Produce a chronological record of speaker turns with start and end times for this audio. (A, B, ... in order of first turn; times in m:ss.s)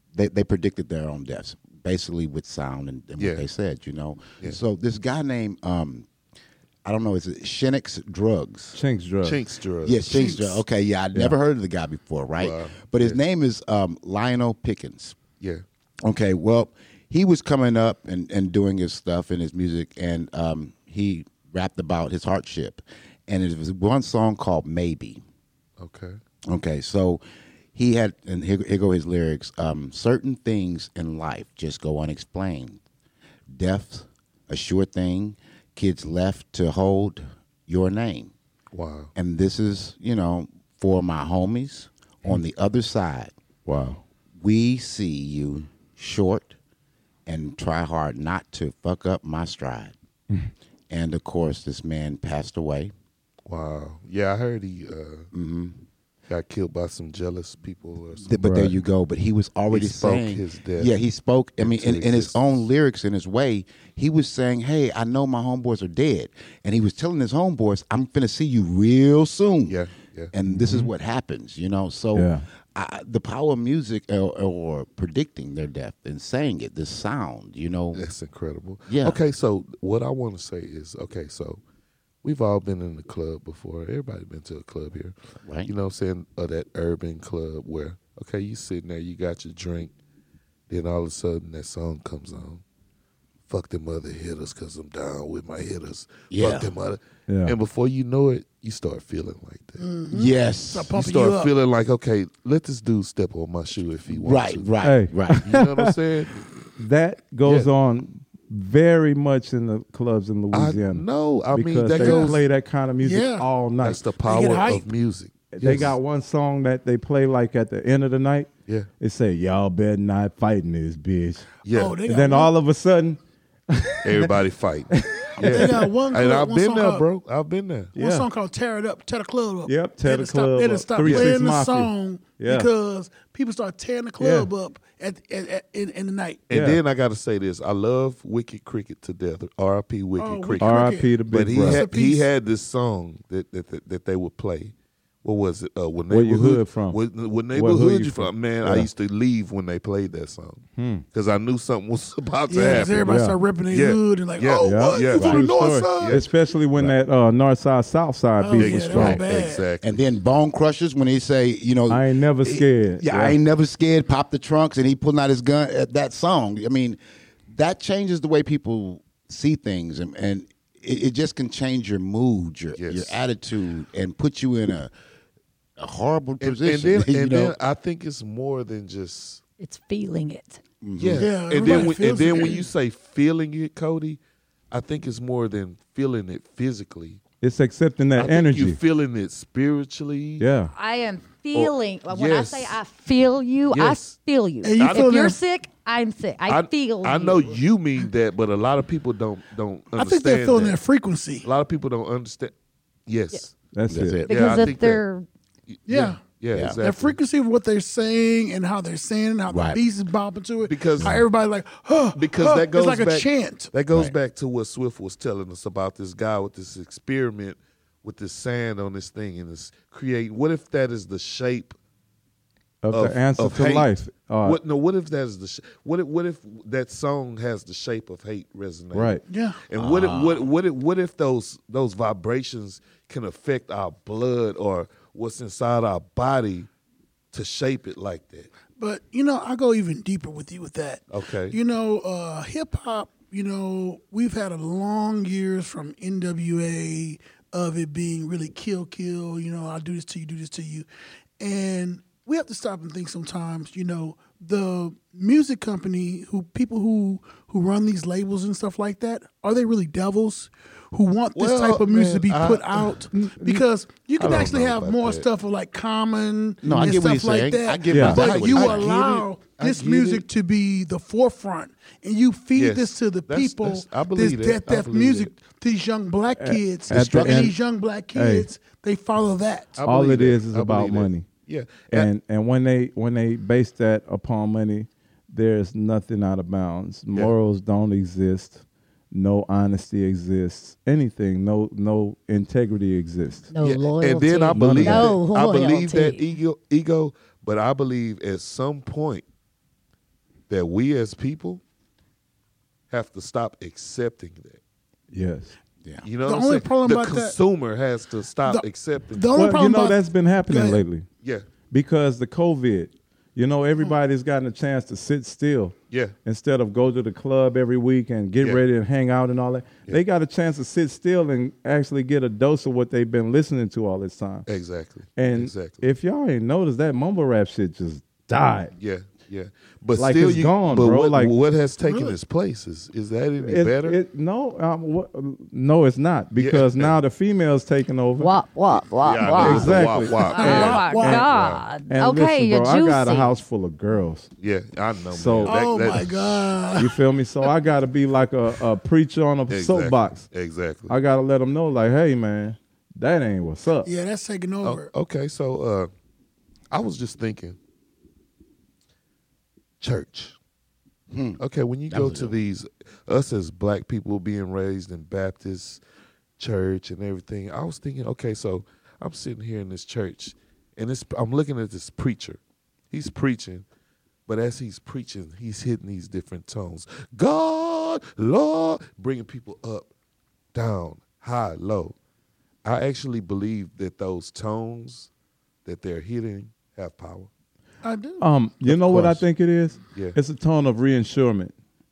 0:00.1-0:06.1 A
0:03.2-0:03.4 B
0:06.8-0:08.8 A
0:08.7-0:09.4 C
0:09.2-0:10.4 B
0:09.8-0:15.2 A
0:10.1-0:10.6 D
0:12.4-0:13.2 B
0:16.0-0:25.2 A
0:25.8-0:26.2 B
0:26.5-0:27.2 A
0:27.8-0:32.8 A
0:33.5-0:38.3 A
0:38.7-0:39.1 B
0:39.2-0:46.6 A
0:47.3-0:49.9 A
0:50.9-0:52.9 A
0:53.5-0:55.3 B
0:55.3-0:55.8 A
0:56.3-0:58.3 B
0:58.2-1:09.8 A
0:58.4-0:58.8 C
0:59.7-1:00.9 B
1:01.6-1:02.6 B
1:09.7-1:10.3 B
1:10.3-1:18.0 A
1:10.5-1:10.9 C
1:12.2-1:12.4 C
1:17.9-1:21.6 B
1:18.9-1:19.2 A
1:22.2-1:29.9 B
1:25.4-1:25.7 A
1:30.7-1:32.6 B
1:33.5-1:39.8 B
1:36.3-1:36.7 A
1:37.3-1:37.6 C
1:39.8-1:41.5 D
1:40.1-1:41.0 A
1:41.0-1:44.7 B
1:44.1-1:45.5 A
1:44.8-1:45.8 C
1:45.3-1:46.4 B
1:46.8-1:54.0 C
1:47.4-1:47.7 B
1:50.5-1:52.4 B
1:51.9-1:52.4 D
1:53.0-1:53.5 D
1:53.8-1:56.0 B
1:54.2-1:54.9 D
1:55.5-1:58.5 C
1:59.0-2:01.5 C
2:01.6-2:02.0 B
2:01.7-2:02.5 D
2:02.0-2:04.3 C
2:04.0-2:07.9 B
2:05.0-2:05.9 C
2:05.4-2:07.1 D
2:08.0-2:16.5 D
2:08.0-2:08.3 C
2:09.7-2:12.7 C
2:11.0-2:11.3 B
2:14.2-2:14.5 C
2:16.5-2:33.2 B
2:16.5-2:16.8 C
2:20.2-2:22.3 D
2:20.6-2:21.8 C
2:26.1-2:27.0 C
2:27.5-2:28.9 C
2:30.8-2:31.0 C
2:32.5-2:36.2 D
2:32.6-2:33.4 C
2:33.7-2:36.2 B
2:34.6-2:39.2 C
2:38.4-2:39.7 D
2:38.6-2:39.9 B
2:39.0-2:39.2 A
2:39.8-2:47.0 A
2:41.9-2:43.4 C
2:47.5-2:54.9 A
2:52.8-2:53.2 B
2:55.8-2:57.6 A
2:56.4-2:59.4 B
2:59.6-3:00.6 E
3:00.8-3:01.8 A
3:01.0-3:04.2 B
3:01.2-3:02.7 D
3:04.7-3:07.2 B
3:07.4-3:08.8 C
3:08.2-3:10.5 B
3:10.4-3:10.7 C
3:10.7-3:17.6 E
3:11.5-3:12.8 B
3:13.7-3:14.1 B
3:14.6-3:15.4 D
3:14.8-3:15.1 B
3:16.5-3:20.8 B
3:19.9-3:21.5 D
3:21.4-3:22.5 B
3:23.1-3:23.5 B
3:23.7-3:24.2 C
3:23.9-3:24.6 A
3:24.2-3:25.3 E
3:24.3-3:25.0 B
3:25.7-3:27.2 B
3:25.9-3:26.2 D
3:26.8-3:33.7 D
3:29.5-3:29.8 A
3:30.7-3:31.2 B
3:32.2-3:41.8 B
3:42.8-3:44.6 C
3:42.9-3:56.7 B
3:48.9-3:49.2 C
3:49.3-3:49.6 D
3:49.7-3:50.5 A
3:57.3-3:58.5 B
3:58.8-4:10.9 D
4:01.1-4:01.6 B
4:11.4-4:39.8 D
4:21.4-4:23.0 B
4:23.2-4:23.6 C
4:24.2-4:25.3 B
4:26.6-4:28.9 A
4:27.9-4:28.3 C
4:27.9-4:30.2 B
4:32.6-4:35.3 B
4:36.4-4:37.6 C
4:36.9-4:37.5 A
4:38.1-4:38.5 C
4:39.8-4:42.1 B
4:39.9-4:41.3 C
4:41.9-4:53.5 C
4:53.5-4:56.3 E
4:53.6-4:59.2 B
4:54.6-4:55.2 C
5:00.5-5:01.6 B
5:02.9-5:04.6 B
5:05.1-5:05.5 C
5:06.0-5:09.3 B
5:06.2-5:07.4 D
5:08.4-5:10.8 D
5:09.3-5:11.1 C
5:11.7-5:24.5 C
5:18.4-5:18.6 B
5:24.5-5:25.9 B
5:25.2-5:28.7 C
5:28.8-5:34.0 B
5:30.0-5:31.3 C
5:31.8-5:32.2 D
5:33.4-5:38.3 C
5:36.4-5:37.0 B
5:38.2-5:43.3 E
5:39.0-5:41.6 B
5:39.3-5:41.3 C
5:40.2-5:41.3 D
5:41.9-5:44.3 C
5:44.4-5:46.6 B
5:45.1-5:45.6 C
5:45.4-5:47.0 D
5:46.8-5:50.3 C
5:49.5-5:50.9 B
5:50.9-5:53.9 C
5:53.8-5:54.9 D
5:54.6-5:55.9 B
5:56.7-5:57.6 B
5:59.8-6:00.4 B
6:01.1-6:02.4 A
6:01.4-6:05.8 B
6:06.4-6:12.4 B
6:12.9-6:13.6 B
6:14.3-6:19.9 B
6:20.5-6:22.0 B
6:22.6-6:25.1 B
6:25.6-6:27.3 B
6:27.8-6:28.3 D
6:28.2-6:31.5 C
6:28.7-6:29.2 B